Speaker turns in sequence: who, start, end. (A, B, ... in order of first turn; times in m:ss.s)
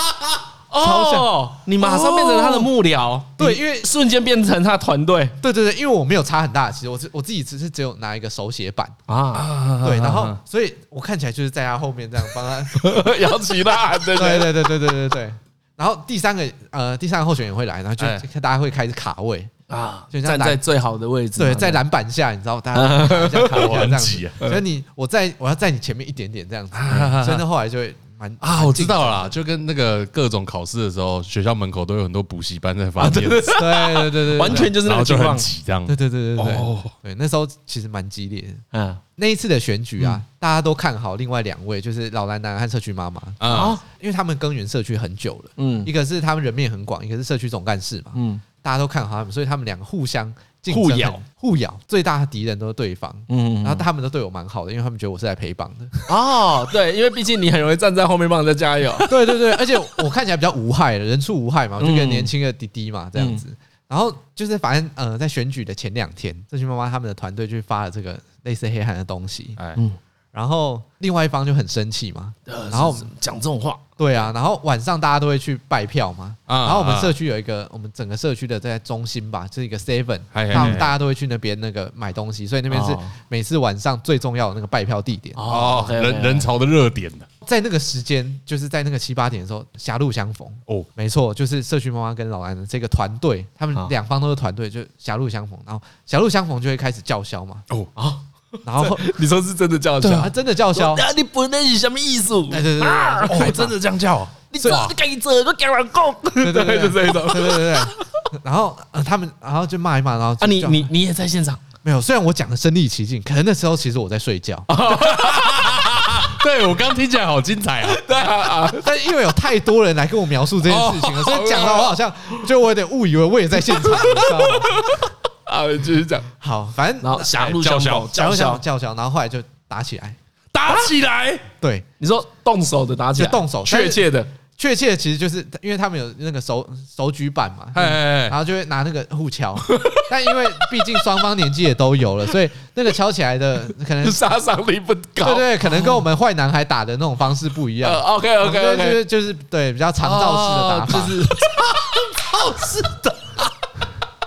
0:00.7-0:05.4 A
0:00.8-0:01.3 B
0:01.8-0:02.7 C
0:03.4-0:03.9 B
0:05.4-0:09.0 B
0:09.1-0:09.5 A
0:09.3-0:10.4 C
0:09.8-0:12.9 B
0:12.7-0:14.5 A
0:14.2-0:19.5 B
0:19.7-0:21.8 A
0:20.1-0:20.6 B
0:21.4-0:29.3 B
0:22.7-0:23.9 A
0:23.5-0:24.4 C
0:26.7-0:27.4 C
0:28.4-0:33.6 C
0:33.0-0:35.5 A
0:33.5-0:34.7 B
0:34.4-0:36.9 C
0:35.9-0:38.6 B
0:38.7-0:39.0 A
0:39.2-0:56.0 B
0:43.4-0:43.7 C
0:43.5-0:43.8 A
0:45.6-0:45.9 A
0:48.1-0:48.4 A
0:50.7-0:51.2 A
0:53.3-0:53.8 A
0:56.1-0:59.1 A
0:59.0-1:09.6 B
1:01.8-1:02.3 A
1:03.2-1:03.4 A
1:10.3-1:13.1 B
1:12.4-1:13.8 A
1:14.0-1:25.4 B
1:16.5-1:17.1 C
1:20.3-1:20.9 C
1:20.5-1:20.8 A
1:22.7-1:23.1 A
1:25.4-1:26.5 A
1:25.5-1:27.2 C
1:27.4-1:37.6 B
1:38.0-1:38.2 A
1:38.6-1:39.1 B
1:38.8-1:43.7 A
1:40.0-1:41.0 B
1:42.5-1:43.7 B
1:43.3-1:44.9 C
1:44.5-1:48.0 A
1:46.4-1:50.9 B
1:50.4-1:51.6 A
1:51.8-1:54.7 B
1:54.7-1:55.9 A
1:54.9-1:58.0 C
1:57.8-1:58.8 A
1:58.7-2:04.8 B
2:00.6-2:01.9 C
2:04.8-2:06.3 A
2:06.4-2:07.4 B
2:07.0-2:08.6 A
2:07.3-2:08.1 C
2:08.0-2:10.2 B
2:10.5-2:11.4 C
2:11.6-2:11.8 B
2:12.0-2:14.3 A
2:13.2-2:14.0 B
2:14.6-2:24.2 B
2:17.7-2:18.4 C
2:19.6-2:20.1 A
2:24.0-2:26.0 A
2:25.2-2:31.1 B
2:27.8-2:29.0 A
2:30.0-2:33.4 A